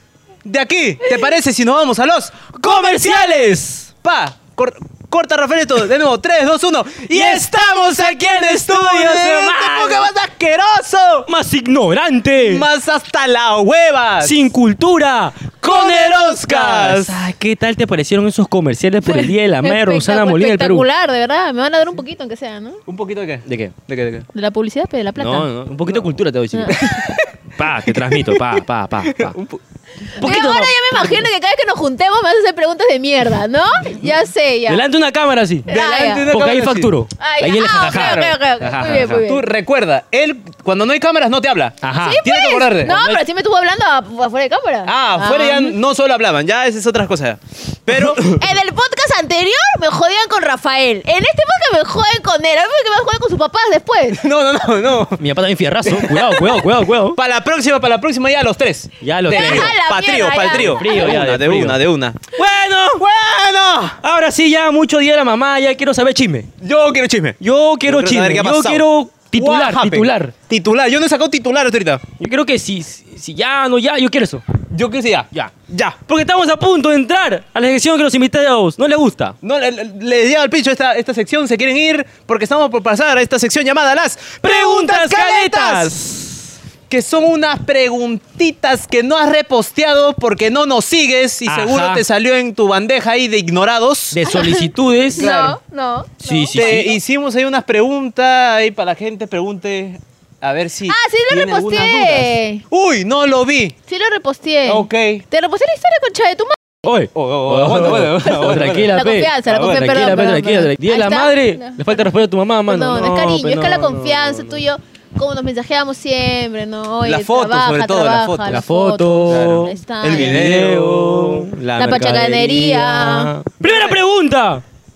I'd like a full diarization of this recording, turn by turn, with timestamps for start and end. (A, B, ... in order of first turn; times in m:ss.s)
0:00.4-0:11.3 A
0:02.6-0:03.9 B
0:07.1-0:10.1 B
0:11.3-0:12.6 B
0:12.4-0:14.4 A
0:14.2-0:20.8 B
0:15.6-0:17.3 A
0:19.0-0:22.8 C
0:22.9-0:24.3 A
0:23.5-0:23.7 B
0:24.3-0:25.5 C
0:25.2-0:27.0 B
0:26.5-0:27.1 C
0:26.7-0:27.3 A
0:27.6-0:29.4 B
0:27.8-0:29.6 A
0:30.2-0:34.8 C
0:30.2-0:31.2 B
0:34.7-0:35.7 B
0:35.7-0:36.3 C
0:35.7-0:36.9 A
0:36.2-0:39.2 B
0:37.2-0:39.4 C
0:37.8-0:38.3 A
0:39.2-0:42.9 A
0:41.8-0:42.2 B
0:42.0-0:45.8 C
0:42.8-0:43.2 B
0:44.8-0:48.4 A
0:48.0-0:54.2 C
0:54.1-0:55.2 A
0:55.2-0:57.2 B
0:55.8-0:56.6 A
0:57.1-1:02.3 A
0:59.0-0:59.7 B
0:59.3-1:01.2 C
1:00.5-1:01.8 B
1:02.3-1:03.0 B
1:03.0-1:04.0 A
1:04.0-1:06.5 B
1:06.6-1:12.0 A
1:07.4-1:10.3 B
1:12.2-1:14.4 B
1:14.7-1:16.0 A
1:16.1-1:19.4 B
1:19.4-1:26.0 A
1:24.4-1:26.4 B
1:26.9-1:34.3 A
1:31.4-1:32.0 B
1:34.1-1:35.3 B
1:34.2-1:36.8 C
1:35.1-1:35.6 A
1:36.2-1:37.0 B
1:36.5-1:43.7 A
1:40.9-1:42.6 C
1:43.9-1:46.6 C
1:44.6-1:45.2 A
1:46.8-1:54.6 B
1:47.1-1:50.0 A
1:48.9-1:52.1 C
1:52.7-2:00.4 C
1:57.0-1:58.6 A
1:58.5-2:04.6 B
1:59.3-2:01.5 A
2:01.8-2:03.3 C
2:03.6-2:04.0 A